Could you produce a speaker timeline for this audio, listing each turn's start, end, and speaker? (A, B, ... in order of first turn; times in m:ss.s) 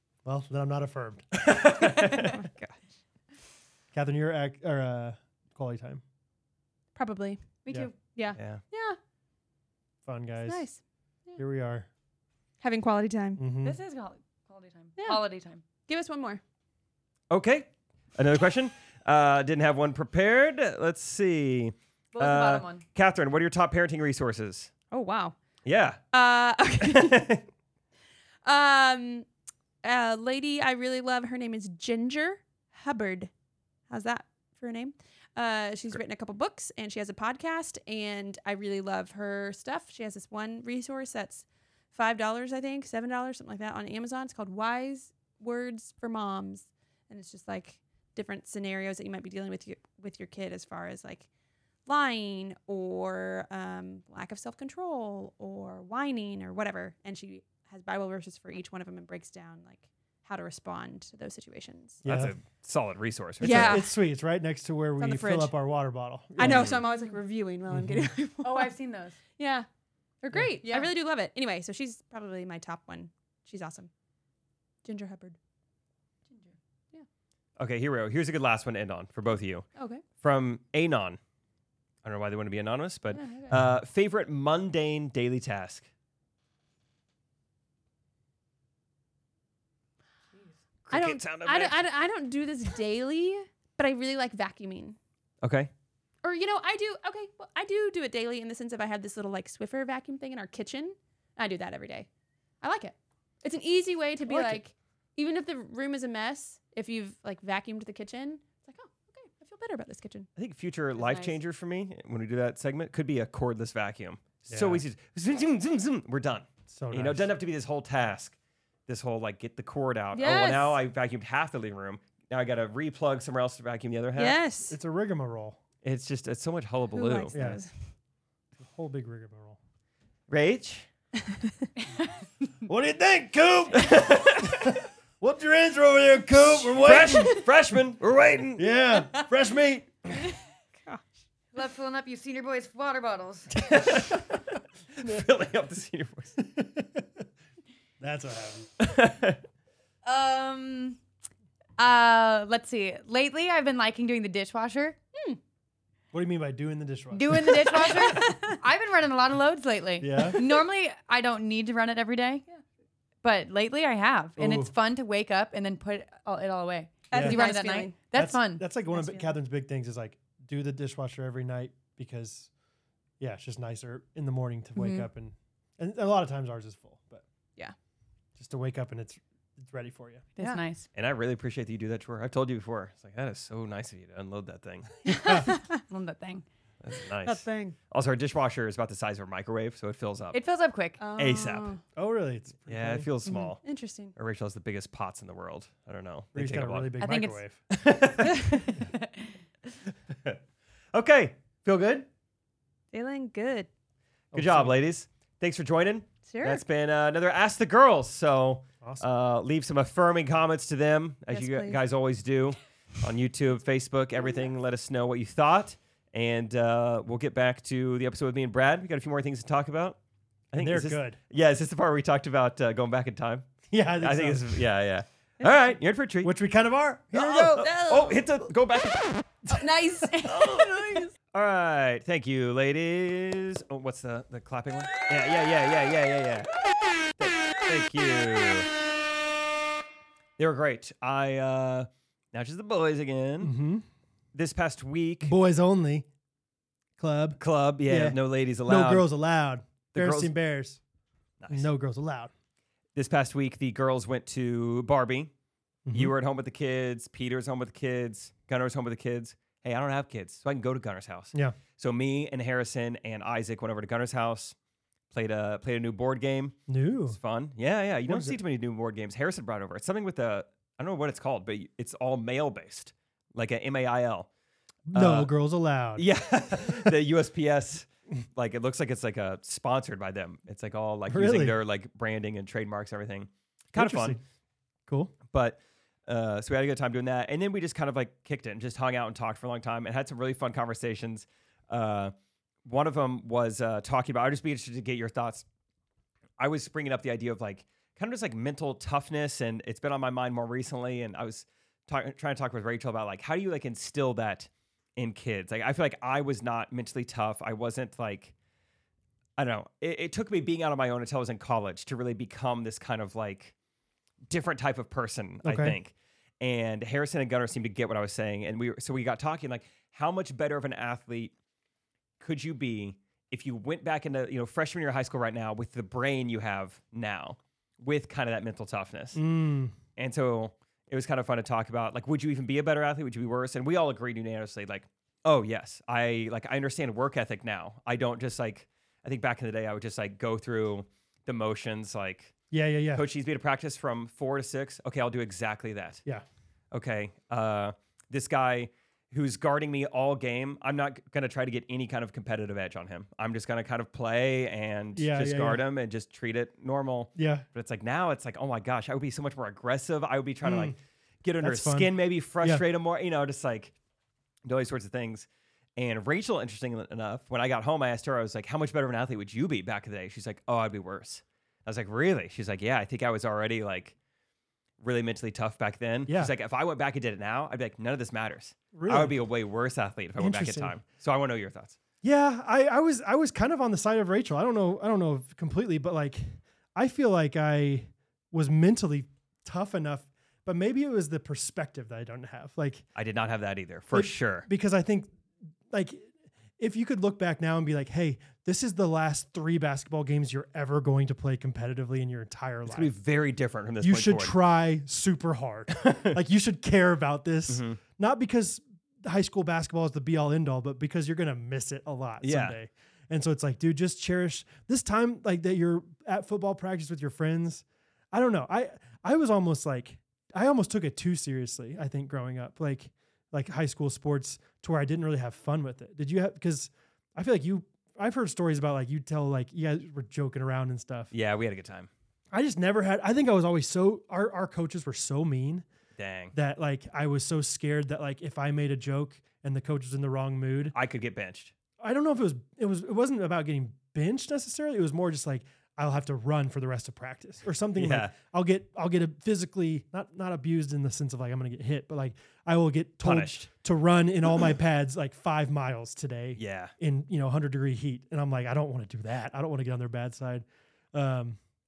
0:00.2-0:01.3 A
0:01.4-0:02.4 B
0:02.1-0:02.8 C
0:03.9-0:06.0 A
0:06.9-0:07.5 C
0:07.6-0:08.0 D
0:08.1-0:09.0 C
0:08.4-0:08.6 B
0:10.0-0:10.6 A
0:10.4-0:11.4 C
0:11.4-0:11.9 A
0:12.6-0:13.4 C
0:13.4-0:13.8 A
0:13.6-0:15.6 D
0:15.9-0:16.4 C
0:17.3-0:24.7 B
0:22.1-0:22.8 D
0:24.9-0:25.4 C
0:25.6-0:26.0 B
0:26.1-0:27.2 C
0:26.8-0:27.4 B
0:28.4-0:29.3 C
0:29.8-0:33.3 C
0:33.9-0:51.3 C
0:51.8-1:02.0 C
1:02.0-1:03.8 B
1:02.0-1:02.4 A
1:03.4-1:06.8 A
1:03.4-1:03.9 C
1:05.0-1:05.5 C
1:06.4-1:08.7 C
1:06.4-1:06.8 B
1:07.7-1:08.1 A
1:08.4-1:09.2 D
1:09.4-1:09.7 C
1:10.2-1:13.9 C
1:10.6-1:10.9 D
1:14.8-1:15.4 C
1:16.3-1:16.5 D
1:17.6-1:19.6 B
1:19.8-1:20.0 C
1:20.2-1:21.2 B
1:22.0-1:25.9 B
1:23.1-1:23.5 C
1:23.5-1:23.8 A
1:30.9-1:31.8 B
1:30.9-1:35.0 C
1:35.4-1:35.7 B
1:36.2-1:42.1 C
1:42.6-1:50.3 C
1:44.3-1:44.6 D
1:50.4-1:58.4 B
1:51.0-1:51.3 D
1:54.5-1:54.8 A
1:56.7-1:57.3 A
1:58.9-2:04.4 B
2:00.1-2:00.8 C
2:04.2-2:04.8 C
2:04.7-2:05.6 A
2:05.8-2:07.4 B
2:06.9-2:07.7 C
2:07.3-2:07.6 A
2:08.6-2:09.6 A
2:10.3-2:10.9 B
2:12.6-2:17.4 A
2:13.8-2:14.8 B
2:16.8-2:18.7 B
2:18.6-2:20.3 A
2:21.5-2:23.5 D
2:23.6-2:26.3 B
2:26.4-2:27.1 A
2:28.0-2:28.7 A
2:28.8-2:29.4 B
2:30.0-2:31.0 D
2:31.8-2:35.0 D
2:36.1-2:37.6 A
2:37.1-2:42.4 D
2:37.6-2:38.6 C
2:40.0-2:40.4 A
2:43.2-2:48.6 D
2:44.4-2:44.7 A
2:47.1-2:47.9 C
2:47.1-2:47.4 A
2:48.1-2:52.5 A
2:48.9-2:49.3 C
2:53.2-2:57.2 A
2:54.8-2:55.1 D
2:58.4-3:00.2 A
3:00.4-3:00.8 D
3:00.4-3:00.6 C
3:00.9-3:04.9 B
3:05.1-3:05.5 A
3:05.1-3:06.4 D
3:06.8-3:10.4 B
3:07.2-3:07.8 C
3:10.3-3:11.0 D
3:11.0-3:11.8 C
3:11.2-3:11.7 B
3:12.0-3:13.1 A
3:12.7-3:13.6 B
3:13.6-3:14.1 C
3:14.2-3:16.9 B
3:16.3-3:17.6 A
3:17.0-3:17.4 D
3:17.7-3:18.8 B
3:18.6-3:19.3 D
3:20.9-3:22.1 B
3:22.9-3:23.7 C
3:24.3-3:24.8 A
3:24.3-3:40.0 B
3:26.3-3:26.6 C
3:31.3-3:31.8 C
3:40.5-3:46.3 B
3:40.6-3:41.2 A
3:43.7-3:44.6 A
3:45.4-3:45.7 C
3:46.2-3:47.6 A
3:47.1-3:48.2 C
3:47.5-3:49.3 B
3:49.5-3:51.1 C
3:50.2-3:56.5 B
3:57.2-3:58.7 B
4:00.4-4:03.5 B
4:03.4-4:03.8 A
4:04.3-4:05.3 B
4:05.2-4:06.1 A
4:07.0-4:10.8 A
4:07.4-4:09.1 B
4:09.9-4:10.3 B
4:11.4-4:11.7 B
4:11.5-4:12.3 A
4:12.9-4:15.3 B
4:15.8-4:16.1 A
4:15.9-4:24.6 B
4:25.1-4:26.6 B
4:26.7-4:27.2 A
4:27.1-4:34.3 B
4:28.1-4:28.4 A
4:34.9-4:36.9 A
4:34.9-4:35.3 B
4:36.0-4:44.2 B
4:41.1-4:41.6 A
4:43.7-4:44.2 A
4:44.9-4:45.1 A
4:45.3-4:52.1 B
4:52.6-4:55.4 B
4:56.4-5:08.3 B
5:09.4-5:13.5 B
5:14.3-5:21.3 B
5:15.4-5:15.8 A
5:22.2-5:29.2 B
5:29.1-5:29.7 A
5:30.0-5:42.3 B
5:42.5-5:43.0 A
5:42.9-5:46.0 B
5:46.7-6:03.7 B
5:54.9-5:55.6 A
5:57.2-5:57.4 A
6:00.4-6:00.8 A
6:01.4-6:02.6 A
6:04.4-6:14.0 B
6:14.8-6:21.8 B
6:16.1-6:16.3 A
6:18.7-6:19.2 A
6:20.2-6:20.8 A
6:22.0-6:32.8 A
6:32.9-6:34.5 B
6:33.9-6:35.1 A
6:35.7-6:42.9 A
6:42.7-6:44.4 B
6:43.8-7:11.1 A
6:45.7-6:46.2 B
6:47.5-6:47.8 B
6:52.2-6:52.5 B
7:11.1-7:11.9 B
7:12.3-7:15.6 A
7:16.0-7:16.3 B
7:16.3-7:20.7 A
7:20.7-7:21.5 B
7:21.8-7:41.4 A
7:27.8-7:28.1 B
7:33.0-7:33.5 B
7:36.4-7:36.7 B